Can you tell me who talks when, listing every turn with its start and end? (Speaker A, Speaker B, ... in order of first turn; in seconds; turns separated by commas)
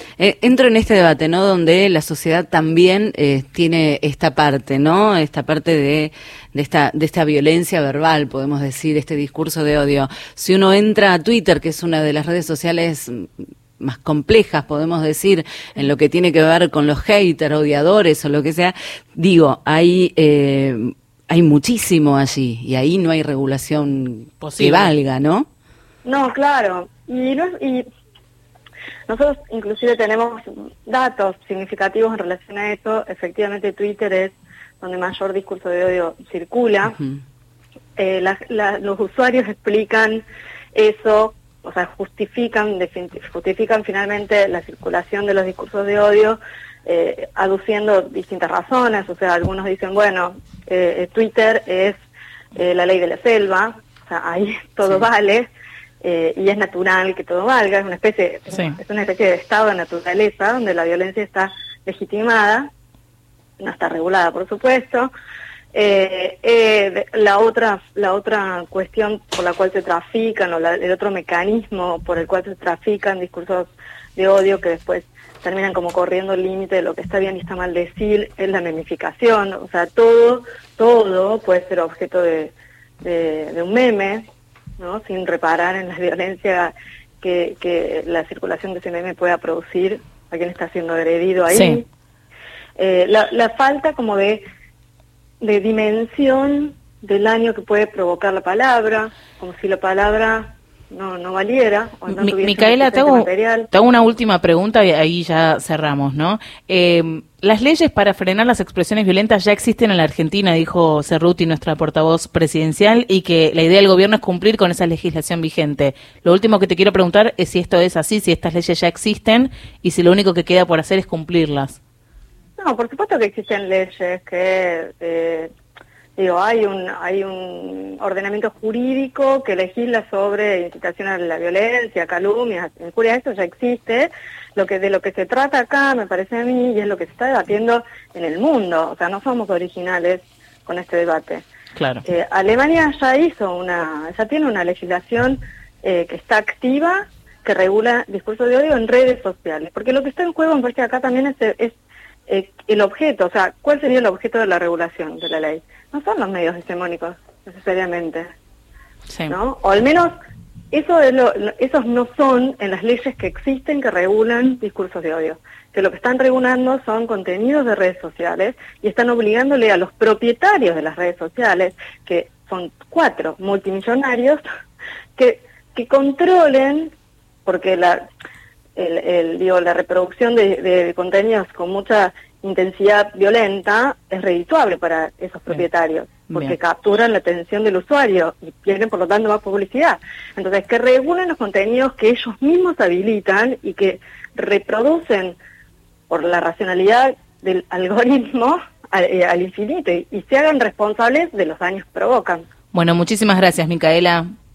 Speaker A: 0.2-25.5, Speaker B: 24.4-24.9, Speaker C: 26.1-27.9, Speaker C: 29.1-37.0, Speaker C: 38.0-40.2, Speaker C: 40.7-52.0, Speaker C: 52.5-55.5, Speaker C: 56.0-62.7, Speaker C: 63.6-65.1, Speaker C: 65.7-84.2, Speaker C: 84.8-91.9, Speaker B: 91.5-91.8, Speaker C: 92.8-94.4, Speaker C: 95.4-103.7, Speaker B: 102.1-121.8, Speaker C: 122.6-125.5, Speaker C: 126.2-141.4, Speaker B: 141.8-142.0, Speaker C: 142.1-151.8, Speaker C: 152.3-158.3, Speaker B: 159.1-159.3, Speaker C: 159.3-160.1, Speaker C: 160.7-174.4, Speaker C: 175.2-176.9, Speaker C: 177.4-178.0, Speaker C: 178.8-195.4, Speaker B: 186.3-186.6, Speaker C: 196.1-202.4, Speaker B: 202.7-204.3